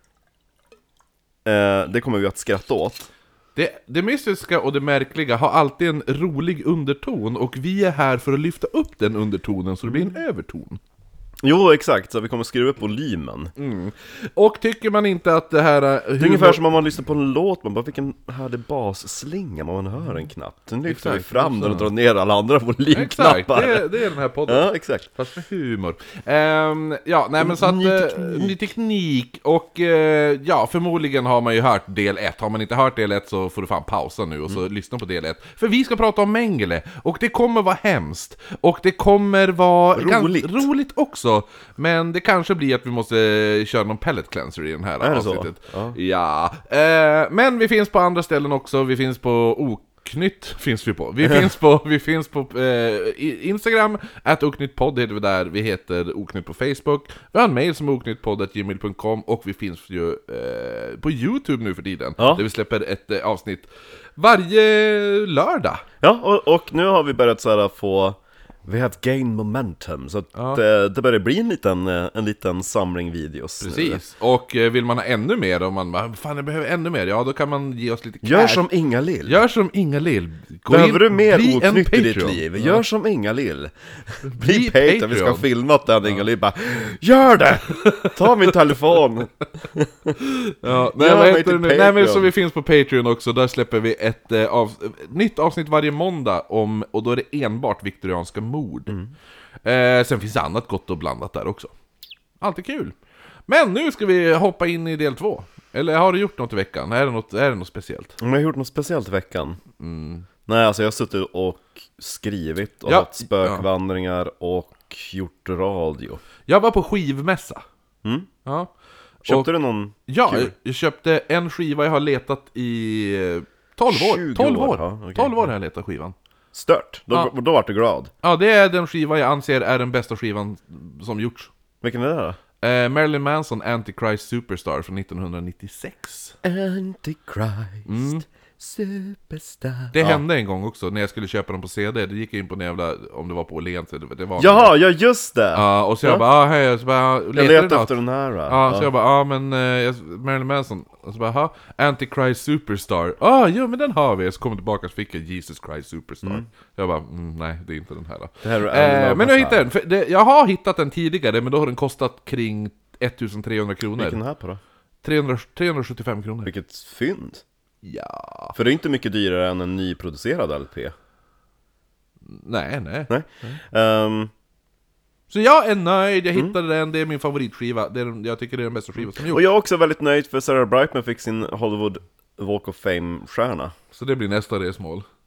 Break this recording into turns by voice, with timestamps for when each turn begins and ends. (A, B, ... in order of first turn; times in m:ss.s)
0:01.4-0:03.1 A
0:03.6-0:10.8 B
0:09.9-0:10.2 A
0:11.4-0:13.5 A
0:13.6-0:16.6 B
0:16.2-0:23.9 A
0:20.9-0:21.9 B
0:22.9-1:05.8 B
0:24.5-0:25.1 A
0:27.4-0:28.7 A
0:40.0-0:40.7 A
0:45.0-0:46.0 A
1:02.2-1:02.4 A
1:06.0-1:14.0 A
1:10.4-1:10.6 B
1:13.6-1:18.6 B
1:18.2-1:19.4 A
1:19.2-1:22.8 B
1:20.7-1:30.2 A
1:24.2-1:25.4 B
1:27.8-1:28.2 B
1:30.2-1:39.0 B
1:30.8-1:32.3 A
1:39.6-1:41.7 B
1:42.4-1:43.0 B
1:43.5-1:48.2 B
1:48.2-1:49.6 A
1:49.8-1:50.3 B
1:50.5-1:56.2 A
1:52.9-1:53.7 B
1:56.5-1:57.6 B
1:58.0-1:58.3 A
1:58.4-1:58.7 B
1:59.2-2:00.5 A
2:00.1-2:06.2 B
2:03.9-2:05.4 A
2:06.5-2:08.1 A
2:08.2-2:11.5 B
2:11.8-2:12.4 A
2:12.6-2:16.4 B
2:16.4-2:20.2 A
2:17.9-2:18.2 B
2:19.9-2:24.7 B
2:24.4-2:26.2 A
2:25.6-2:44.2 B
2:27.4-2:28.9 A
2:38.4-2:39.6 A
2:44.0-2:44.6 A
2:45.0-2:46.5 B
2:46.4-2:47.4 A
2:47.8-2:48.6 B
2:48.6-2:50.9 A
2:52.3-2:53.6 B
2:53.1-2:54.3 A
2:55.3-2:59.5 B
2:59.2-3:03.7 A
3:03.9-3:05.1 B